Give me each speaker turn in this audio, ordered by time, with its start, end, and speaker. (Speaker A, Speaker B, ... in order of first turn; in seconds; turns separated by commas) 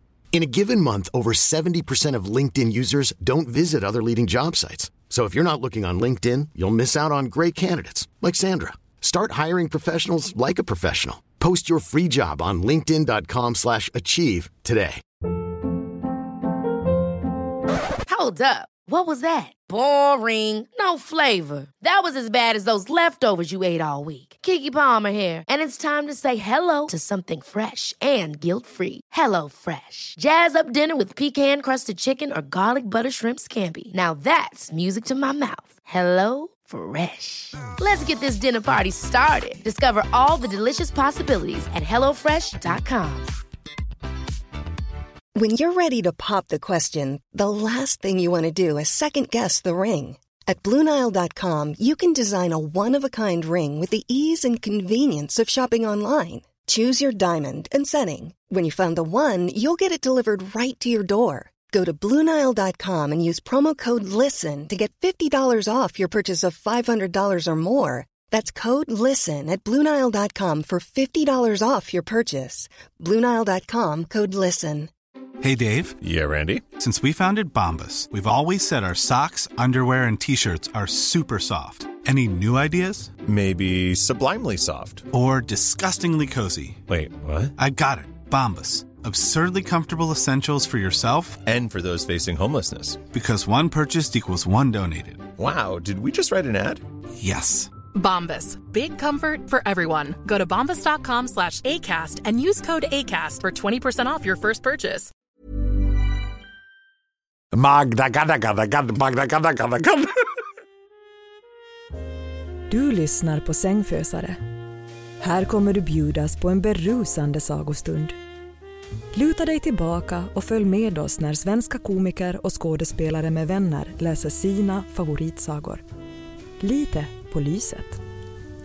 Speaker A: 0.3-15.0, Speaker B: 18.1-43.3, Speaker C: 45.4-74.9, Speaker D: 75.4-76.0, Speaker E: 76.0-76.6, Speaker D: 76.7-83.1, Speaker E: 83.3-85.0, Speaker D: 85.1-86.8, Speaker E: 86.9-87.5, Speaker D: 87.6-91.5, Speaker E: 91.5-93.0, Speaker D: 93.1-95.3, Speaker E: 95.4-96.8, Speaker D: 97.2-97.7, Speaker F: 97.9-105.1, Speaker G: 107.5-110.2, Speaker H: 112.7-114.4, Speaker H: 115.2-118.2, Speaker H: 119.1-125.8, Speaker H: 126.6-128.0